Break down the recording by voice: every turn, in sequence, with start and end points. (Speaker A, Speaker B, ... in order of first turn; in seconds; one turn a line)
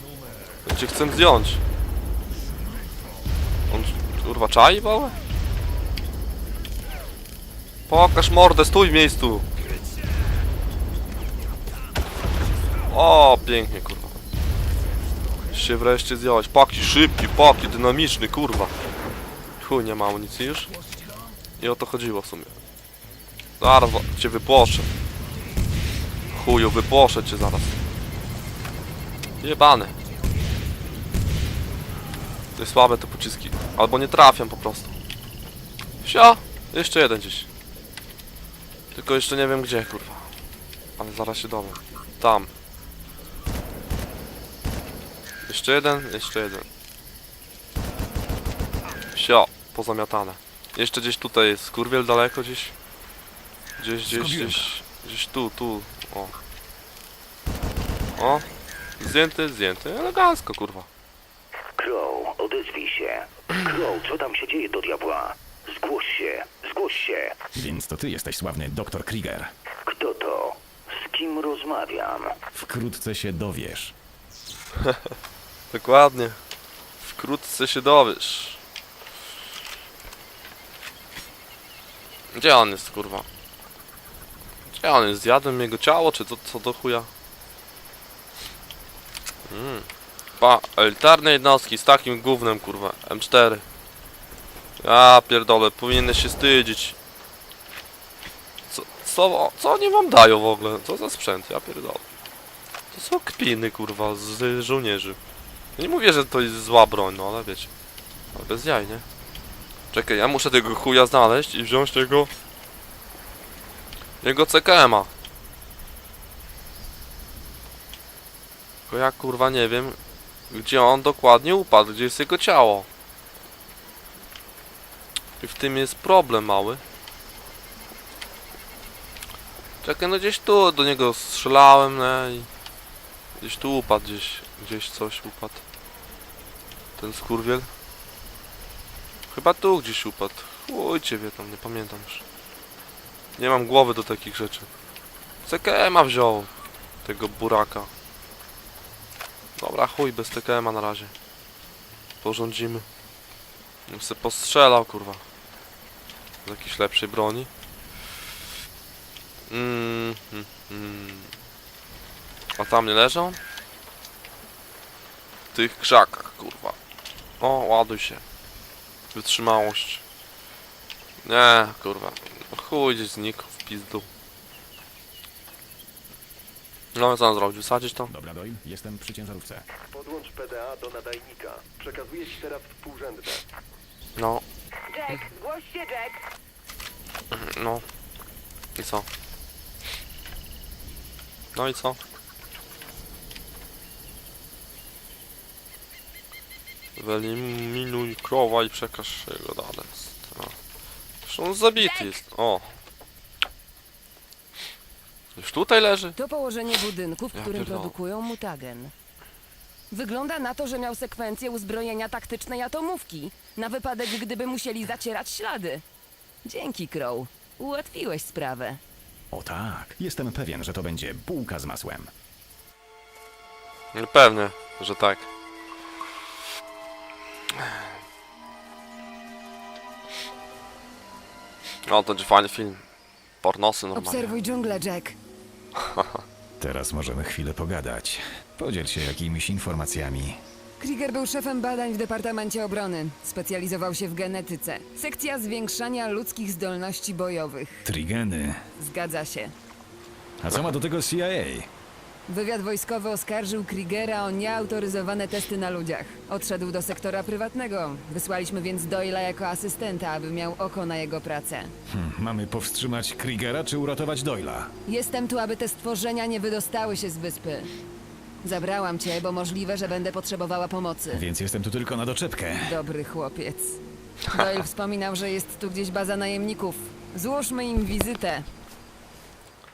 Speaker A: 0.6-1.6
Speaker A: 3.7-5.2
Speaker A: 7.9-9.5
Speaker A: 12.9-14.2
Speaker A: 15.5-18.7
Speaker A: 19.6-20.7
Speaker A: 21.6-22.6
Speaker A: 23.6-24.9
Speaker A: 26.3-27.8
Speaker A: 29.4-29.9
Speaker A: 32.5-34.9
Speaker A: 36.0-37.5
Speaker A: 38.9-40.3
Speaker A: 41.0-42.5
Speaker A: 45.5-46.6
Speaker A: 49.1-52.7
Speaker A: 53.8-56.4
Speaker B: 54.1-54.7
Speaker A: 58.1-58.4
Speaker A: 59.0-60.9
Speaker C: 61.8-67.4
Speaker B: 67.5-69.5
Speaker C: 69.8-72.4
Speaker B: 72.5-73.9
Speaker A: 75.7-76.4
Speaker A: 77.0-78.6
Speaker A: 82.3-83.3
Speaker A: 84.7-87.1
Speaker A: 89.5-89.9
Speaker A: 90.4-93.6
Speaker A: 94.8-97.0
Speaker A: 98.7-102.0
Speaker A: 102.9-105.2
Speaker A: 105.8-107.7
Speaker A: 108.3-109.0
Speaker A: 109.9-112.3
Speaker A: 114.2-115.1
Speaker A: 118.9-120.0
Speaker A: 120.5-122.9
Speaker A: 125.4-126.8
Speaker A: 129.8-132.5
Speaker A: 133.4-135.6
Speaker A: 137.0-137.7
Speaker A: 139.3-142.2
Speaker A: 143.4-144.7
Speaker A: 145.4-146.5
Speaker A: 147.0-147.9
Speaker A: 149.6-151.1
Speaker A: 152.2-152.9
Speaker A: 153.9-155.2
Speaker A: 156.4-157.5
Speaker A: 159.5-161.3
Speaker A: 162.6-163.4
Speaker A: 165.5-166.8
Speaker A: 167.4-168.2
Speaker A: 169.1-170.0
Speaker A: 171.2-174.1
Speaker A: 176.9-178.1
Speaker B: 178.1-179.6
Speaker D: 179.9-183.4
Speaker A: 184.2-184.4
Speaker E: 184.9-186.2
Speaker A: 187.3-187.8
Speaker A: 188.8-189.1
Speaker A: 191.5-192.0
Speaker A: 196.9-200.5
Speaker A: 201.2-202.7
Speaker E: 201.8-202.1
Speaker A: 205.3-206.2
Speaker E: 206.2-208.9
Speaker A: 207.3-207.9
Speaker E: 209.9-215.8
Speaker E: 216.4-218.8
Speaker B: 219.3-222.1
Speaker A: 223.9-225.3
Speaker A: 231.8-232.8
Speaker A: 233.4-234.4
Speaker E: 233.9-235.2
Speaker A: 235.8-236.2
Speaker B: 236.6-240.4
Speaker E: 240.8-247.9
Speaker B: 247.8-248.6
Speaker E: 248.8-249.5
Speaker B: 250.4-251.7
Speaker E: 252.3-261.7
Speaker B: 261.9-264.7
Speaker E: 264.9-267.7
Speaker E: 268.4-271.2
Speaker B: 271.1-272.8
Speaker E: 272.6-278.5